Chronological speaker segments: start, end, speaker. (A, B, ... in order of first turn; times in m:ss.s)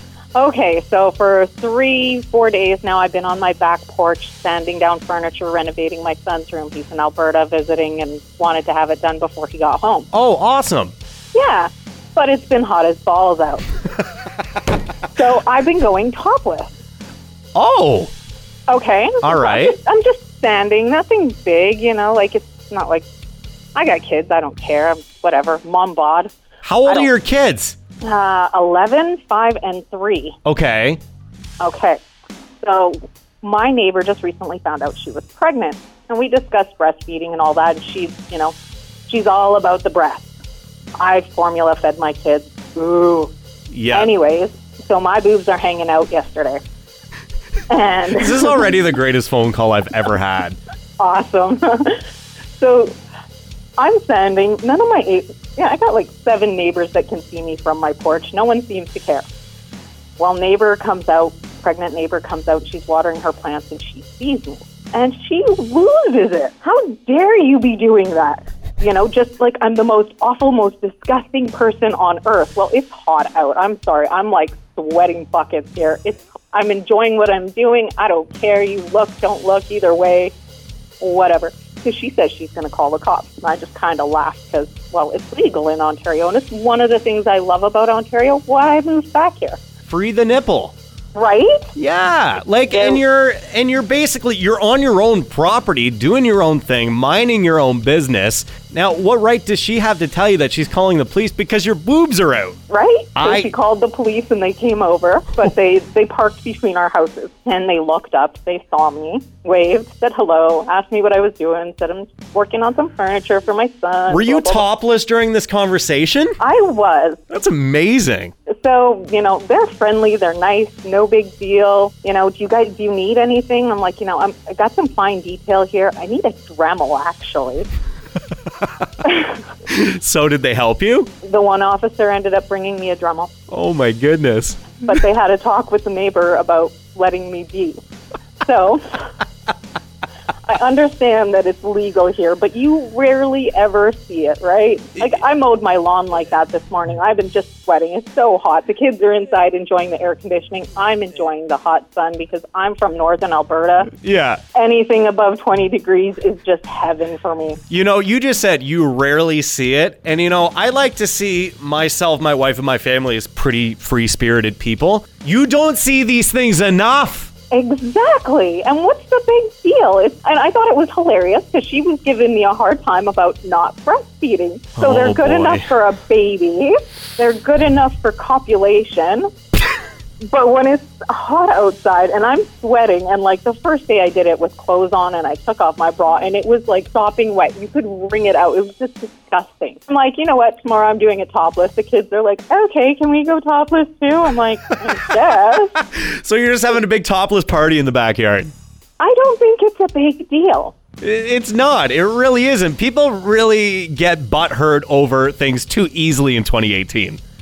0:00.3-0:10.1 A
0:10.1-0:10.9 B
0:11.3-0:13.6 A
0:15.1-0:16.7 A
0:17.5-0:18.1 B
0:18.7-0:23.0 A
0:19.2-0:19.8 B
0:23.7-0:26.3 A
0:26.6-0:27.8 B
0:26.8-0:27.1 A
0:28.0-0:30.4 A
0:30.4-0:31.0 B
0:31.6-0:32.0 A
0:32.6-0:38.5 A
0:39.1-0:40.2 A
0:41.0-0:43.3 A
0:43.7-0:44.1 B
0:43.9-0:46.6 A
0:47.7-0:48.8 A
0:48.1-0:50.6 B
0:51.0-0:52.0 A
0:52.6-0:52.9 A
0:53.8-0:59.2 A
1:00.2-1:20.3 A
1:21.0-1:29.6 A
1:29.8-1:30.7 B
1:31.1-1:31.7 A
1:31.8-1:42.6 B
1:32.7-1:33.0 A
1:42.7-1:54.7 A
1:43.2-1:43.5 B
1:54.1-1:56.4 B
1:56.4-1:57.2 A
1:57.3-1:58.3 B
1:58.5-2:07.7 A
2:09.7-2:11.1 B
2:11.2-2:13.3 A
2:13.5-2:14.8 B
2:14.8-2:17.8 A
2:18.4-2:19.0 A
2:20.4-2:33.9 A
2:33.9-2:34.4 B
2:34.5-2:37.6 A
2:37.7-2:47.3 B
2:47.5-2:59.3 A
2:54.8-2:55.7 B
3:00.2-3:15.8 A
3:15.8-3:18.5 B
3:19.0-3:20.8 A
3:21.0-3:27.2 B